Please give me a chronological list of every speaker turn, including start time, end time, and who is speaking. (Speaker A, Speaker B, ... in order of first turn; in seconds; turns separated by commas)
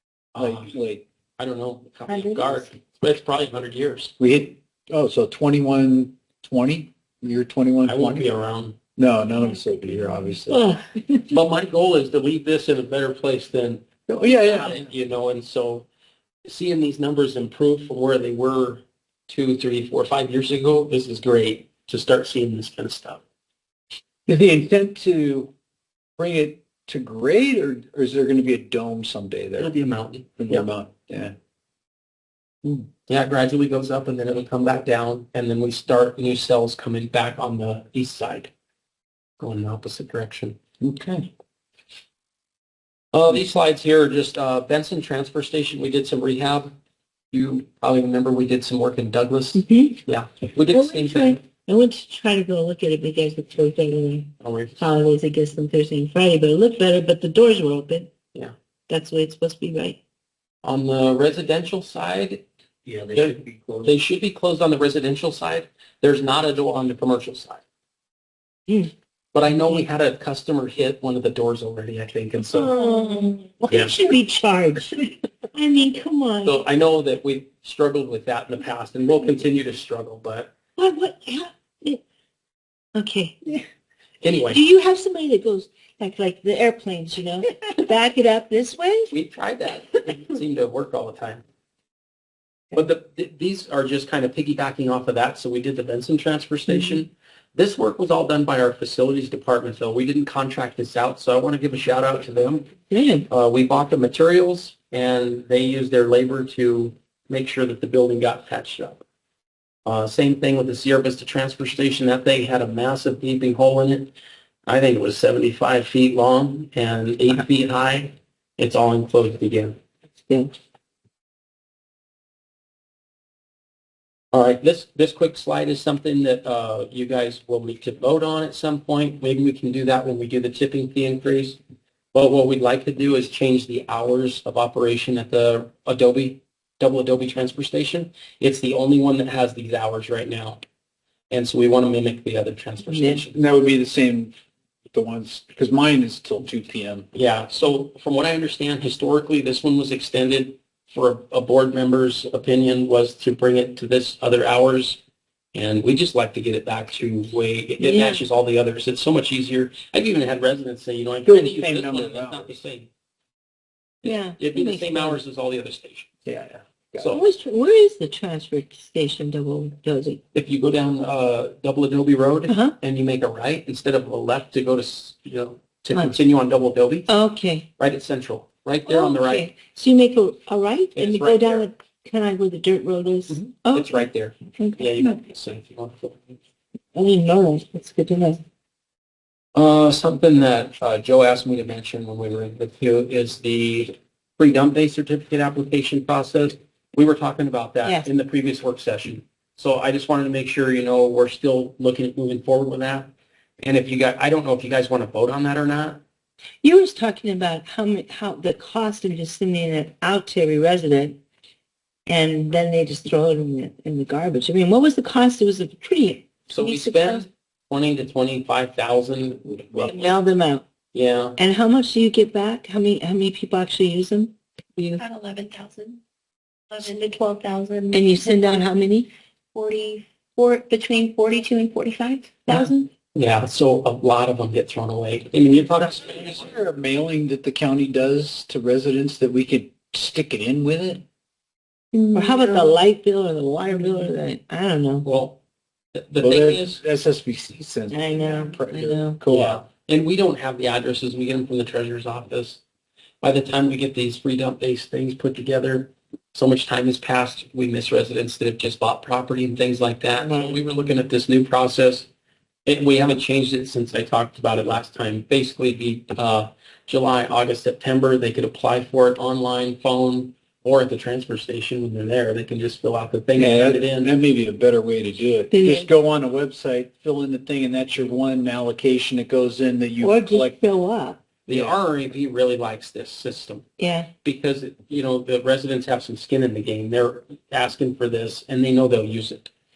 Speaker A: 0.3-0.7, Speaker B: 0.4-1.0, Speaker A: 1.4-4.1, Speaker C: 2.1-2.6, Speaker B: 4.2-8.2, Speaker A: 7.8-8.8, Speaker B: 9.0-10.6, Speaker C: 10.5-10.8, Speaker A: 11.3-15.9, Speaker B: 14.1-14.9, Speaker A: 16.4-23.2, Speaker B: 24.3-25.5, Speaker B: 26.2-29.7, Speaker A: 29.6-30.7, Speaker B: 30.4-31.3, Speaker A: 32.9-38.5, Speaker A: 39.4-40.6, Speaker B: 40.8-41.3, Speaker A: 43.1-46.7, Speaker A: 47.3-51.4, Speaker C: 49.5-50.0, Speaker C: 50.7-58.1, Speaker A: 54.4-54.8, Speaker C: 58.9-60.0, Speaker A: 60.6-62.5, Speaker B: 62.9-63.9, Speaker A: 63.1-67.6, Speaker A: 69.3-72.7, Speaker C: 69.5-69.8, Speaker C: 72.5-76.6, Speaker D: 72.9-73.3, Speaker A: 73.7-74.0, Speaker A: 76.5-80.5, Speaker C: 80.8-82.0, Speaker C: 83.0-83.6, Speaker A: 84.2-84.6, Speaker C: 84.5-89.1, Speaker A: 89.1-91.4, Speaker A: 92.7-102.7, Speaker C: 96.7-97.0, Speaker C: 102.9-103.3, Speaker A: 103.3-109.0, Speaker A: 109.9-114.1, Speaker A: 114.7-119.8, Speaker A: 124.3-131.6, Speaker A: 132.1-140.6, Speaker A: 141.3-143.4, Speaker C: 142.8-143.2, Speaker B: 143.3-144.3, Speaker B: 144.9-147.1, Speaker A: 147.1-155.0, Speaker A: 155.5-162.9, Speaker C: 157.8-158.2, Speaker B: 161.2-162.5, Speaker A: 164.0-166.1, Speaker C: 164.0-165.2, Speaker B: 166.2-167.1, Speaker A: 167.0-167.2, Speaker C: 167.1-170.2, Speaker A: 170.3-177.1, Speaker C: 172.5-172.8, Speaker C: 177.1-177.7, Speaker A: 177.8-179.5, Speaker C: 178.8-185.2, Speaker A: 180.9-181.7, Speaker A: 183.3-186.4, Speaker C: 186.9-188.4, Speaker A: 189.5-206.0, Speaker C: 197.8-198.1, Speaker C: 206.6-211.2, Speaker C: 212.1-217.2, Speaker A: 216.5-220.1, Speaker C: 219.9-220.6, Speaker A: 220.9-221.4, Speaker C: 221.4-225.0, Speaker D: 224.9-226.0, Speaker D: 226.7-228.7, Speaker C: 227.9-229.1, Speaker D: 229.5-232.9, Speaker A: 232.5-236.4, Speaker B: 235.8-241.0, Speaker D: 241.9-242.8, Speaker C: 242.1-245.1, Speaker A: 245.0-245.4, Speaker A: 245.9-246.8, Speaker B: 246.2-249.6, Speaker C: 247.9-249.2, Speaker A: 249.2-252.6, Speaker A: 253.2-262.1, Speaker C: 260.2-260.6, Speaker A: 262.7-274.1, Speaker B: 273.4-280.6, Speaker C: 275.5-275.9, Speaker C: 280.0-281.2, Speaker A: 281.5-283.6, Speaker B: 281.5-281.8, Speaker C: 283.8-284.1, Speaker A: 284.2-289.5